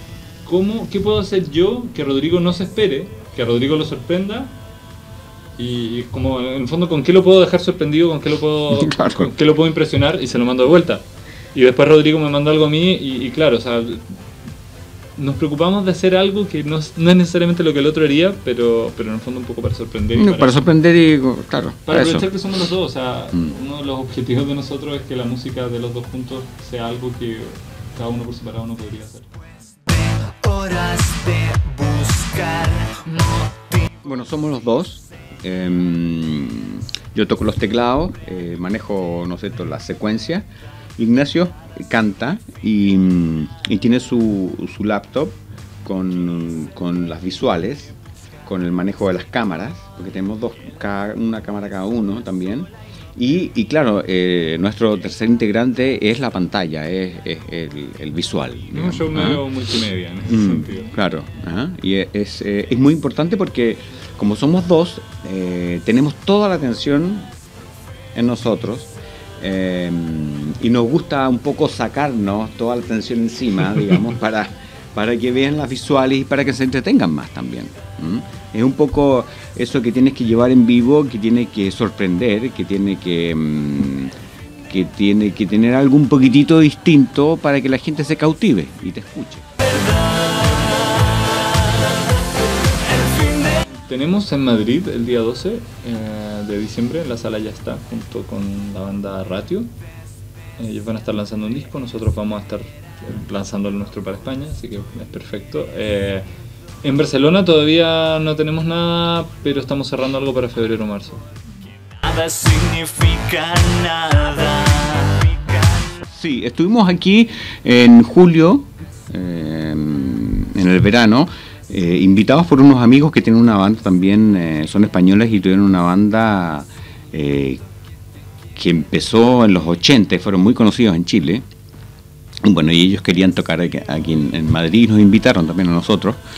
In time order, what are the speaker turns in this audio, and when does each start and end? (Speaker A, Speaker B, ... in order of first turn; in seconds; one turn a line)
Speaker A: 0.4-4.5
Speaker A: 5.6-14.0
Speaker B: 8.7-9.3
Speaker A: 15.2-20.7
Speaker B: 20.1-22.3
Speaker A: 21.9-29.3
Speaker C: 29.9-33.9
Speaker B: 34.0-40.5
Speaker B: 41.0-59.5
Speaker A: 58.7-60.9
Speaker B: 60.3-67.3
Speaker B: 68.1-84.1
Speaker B: 84.7-89.5
Speaker A: 90.1-91.2
Speaker A: 92.9-99.7
Speaker A: 100.6-106.2
Speaker A: 106.8-111.3
Speaker C: 111.8-116.0
Speaker B: 116.0-127.6
Speaker B: 128.5-131.4
Speaker B: 132.4-136.2